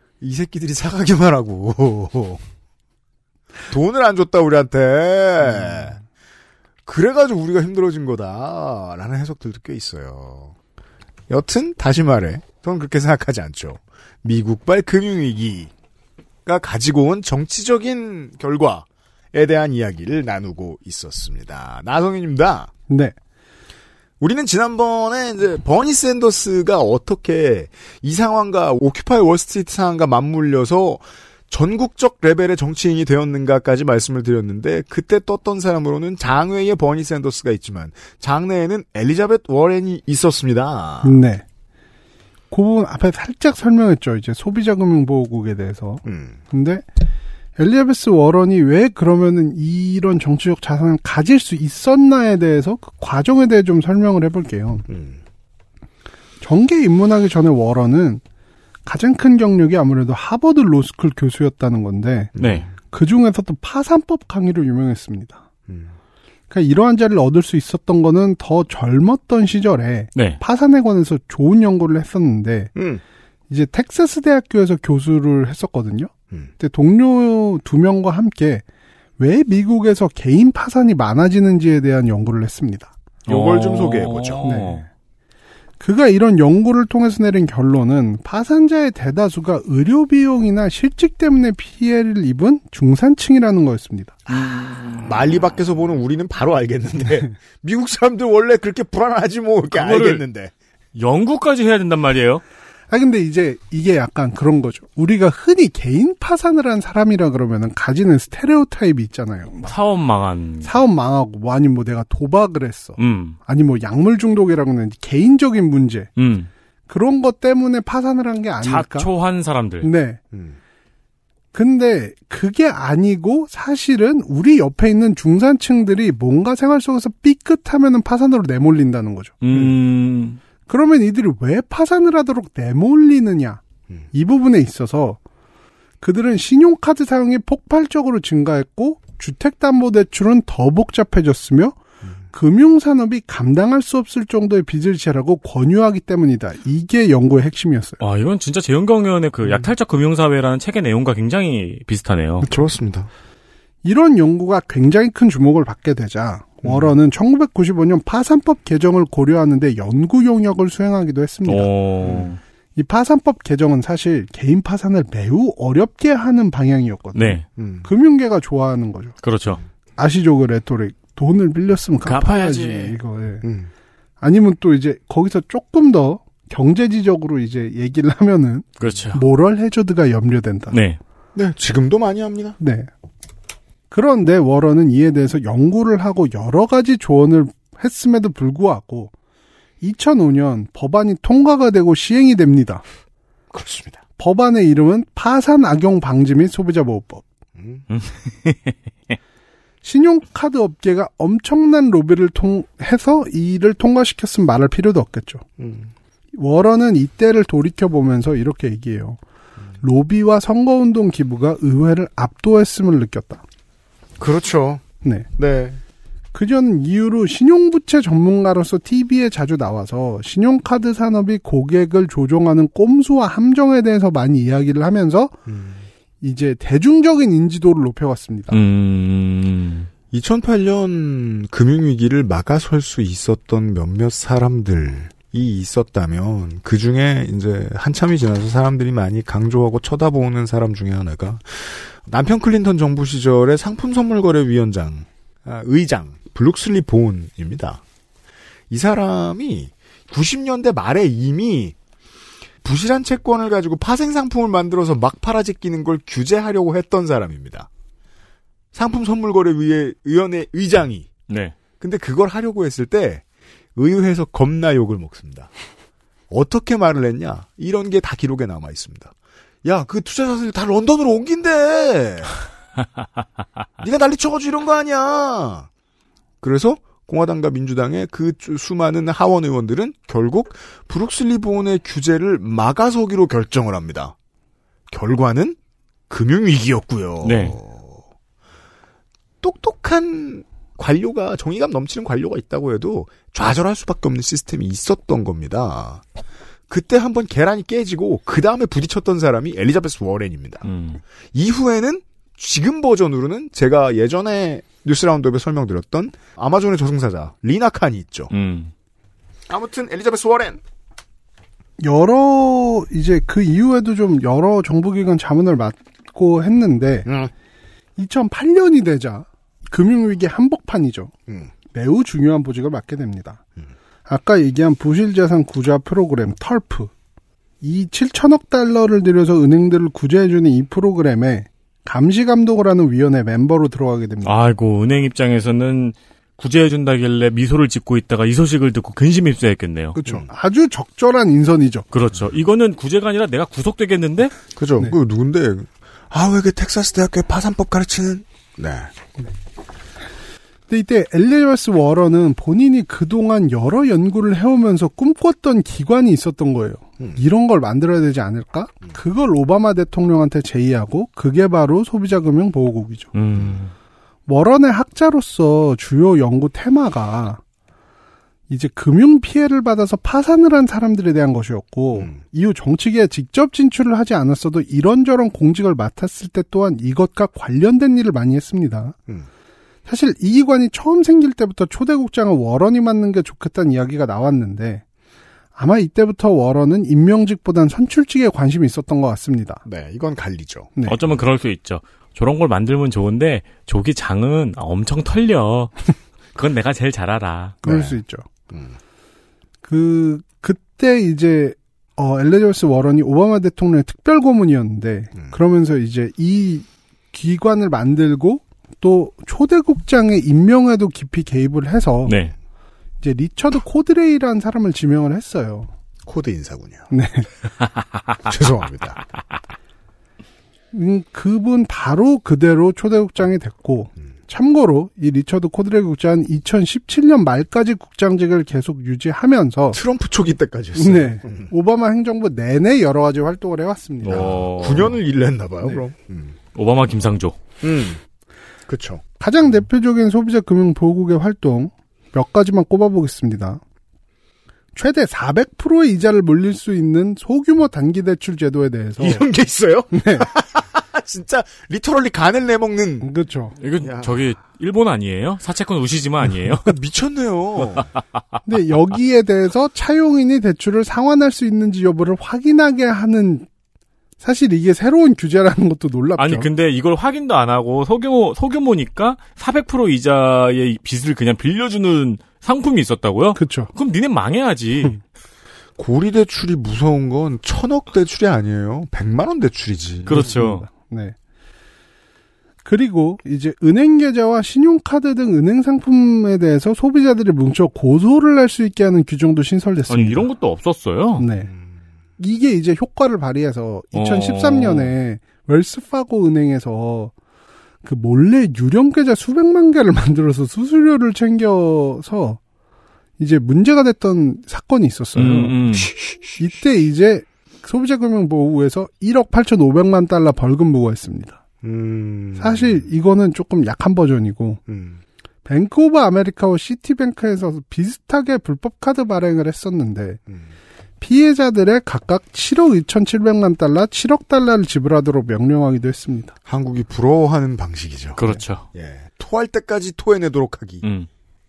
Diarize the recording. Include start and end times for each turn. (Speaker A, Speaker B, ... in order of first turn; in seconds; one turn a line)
Speaker A: 0.2-2.4
Speaker A: 3.7-6.0
Speaker A: 6.8-10.5
Speaker A: 11.3-15.7
Speaker A: 16.4-22.7
Speaker B: 22.9-23.1
Speaker A: 24.2-41.2
Speaker B: 41.0-41.4
Speaker B: 42.5-46.9
Speaker A: 46.0-46.4
Speaker B: 47.6-54.9
Speaker A: 54.9-55.2
Speaker B: 56.4-58.2
Speaker B: 58.9-62.3
Speaker A: 62.3-62.7
Speaker C: 62.4-62.7
Speaker B: 62.9-65.4
Speaker A: 65.7-65.9
Speaker B: 66.5-72.7
Speaker A: 72.7-73.0
Speaker B: 73.5-78.6
Speaker B: 79.2-82.9
Speaker A: 83.2-84.5
Speaker C: 83.3-84.8
Speaker B: 84.4-84.8
Speaker B: 85.8-94.2
Speaker A: 94.3-100.5
Speaker C: 94.3-95.1
Speaker C: 99.7-100.2
Speaker C: 100.9-102.4
Speaker B: 102.9-109.7
Speaker C: 109.6-110.8
Speaker B: 110.6-116.1
Speaker C: 113.0-113.4
Speaker C: 116.2-116.5
Speaker B: 116.9-119.1
Speaker C: 118.6-119.9
Speaker B: 119.8-120.2
Speaker A: 120.3-120.6
Speaker B: 121.5-129.8
Speaker C: 129.4-130.4
Speaker B: 130.7-133.6
Speaker B: 134.1-135.2
Speaker B: 136.0-141.8
Speaker B: 142.3-148.0
Speaker C: 148.0-152.5
Speaker A: 152.4-153.1
Speaker B: 153.8-161.7
Speaker A: 156.6-156.9
Speaker C: 161.4-162.4
Speaker A: 162.0-162.3
Speaker B: 162.8-169.2
Speaker C: 167.1-167.4
Speaker A: 167.6-167.9
Speaker C: 169.2-169.6
Speaker B: 170.0-173.4
Speaker C: 172.0-172.9
Speaker A: 173.4-173.7
Speaker B: 174.2-180.8
Speaker C: 178.8-179.2
Speaker C: 180.7-181.0
Speaker A: 181.3-182.6
Speaker B: 182.6-182.9
Speaker B: 183.9-189.1
Speaker B: 189.8-192.8
Speaker A: 193.5-194.0
Speaker B: 194.2-197.2
Speaker A: 197.6-197.8
Speaker C: 197.9-199.1
Speaker B: 199.8-205.4
Speaker A: 205.6-205.9
Speaker B: 206.3-209.2
Speaker B: 209.8-213.4
Speaker A: 214.2-214.8
Speaker A: 215.3-215.8
Speaker B: 216.3-225.3
Speaker A: 225.4-225.9
Speaker B: 226.2-228.6
Speaker C: 228.5-229.9
Speaker A: 230.1-247.8
Speaker A: 248.7-251.7
Speaker A: 252.6-257.7
Speaker A: 258.7-261.1
Speaker C: 261.3-261.5
Speaker A: 261.8-263.2
Speaker A: 263.8-265.5
Speaker A: 266.3-269.1
Speaker A: 269.6-272.4
Speaker A: 273.8-275.7
Speaker A: 276.4-284.1
Speaker A: 284.9-285.6
Speaker A: 286.1-288.0
Speaker C: 287.2-287.6
Speaker A: 289.4-296.0
Speaker A: 296.7-300.6
Speaker C: 300.6-301.0
Speaker A: 301.3-308.3
Speaker C: 308.3-308.7
Speaker A: 309.5-310.6
Speaker B: 311.8-317.1
Speaker A: 317.0-317.3
Speaker B: 318.0-321.1
Speaker B: 321.7-323.4
Speaker B: 324.1-326.9
Speaker B: 327.6-334.3
Speaker C: 334.2-339.9
Speaker B: 339.9-341.9
Speaker C: 341.9-344.3
Speaker A: 344.5-348.9
Speaker B: 350.7-363.1
Speaker C: 363.1-363.7
Speaker A: 363.3-363.6
Speaker B: 364.3-367.4
Speaker B: 368.5-379.0
Speaker B: 379.9-384.8
Speaker B: 385.6-389.6
Speaker A: 389.6-390.7
Speaker C: 390.9-395.8
Speaker C: 396.4-397.6
Speaker A: 397.6-398.0
Speaker B: 397.6-398.2
Speaker A: 398.5-398.8
Speaker B: 399.6-412.1
Speaker C: 412.1-412.3
Speaker B: 413.0-415.7
Speaker A: 416.0-416.9
Speaker B: 416.9-417.3
Speaker A: 418.2-419.0
Speaker B: 420.7-429.8
Speaker A: 429.7-431.5
Speaker B: 430.8-434.3
Speaker C: 434.0-434.9
Speaker A: 434.1-436.4
Speaker C: 436.5-437.4
Speaker A: 437.6-438.0
Speaker A: 438.7-439.0
Speaker B: 439.2-443.6
Speaker B: 444.7-449.2
Speaker A: 449.0-453.1
Speaker B: 449.9-450.3
Speaker B: 453.0-453.5
Speaker C: 453.6-456.7
Speaker A: 453.8-454.2
Speaker A: 456.6-457.9
Speaker B: 458.4-463.5
Speaker B: 464.2-466.5
Speaker C: 466.2-475.0
Speaker B: 473.4-473.7
Speaker A: 475.8-480.3
Speaker C: 480.1-480.6
Speaker B: 480.1-481.1
Speaker B: 482.6-490.3
Speaker C: 489.9-491.2
Speaker B: 491.2-491.5
Speaker B: 492.2-497.1
Speaker C: 493.9-494.9
Speaker B: 497.8-502.4
Speaker B: 503.2-505.6
Speaker C: 505.1-505.9
Speaker A: 505.7-506.4
Speaker B: 506.4-511.4
Speaker A: 511.6-512.9
Speaker B: 512.4-514.6
Speaker A: 514.7-515.0
Speaker B: 515.4-520.2
Speaker B: 521.0-526.3
Speaker A: 526.5-530.9
Speaker C: 528.2-528.6
Speaker C: 530.8-531.1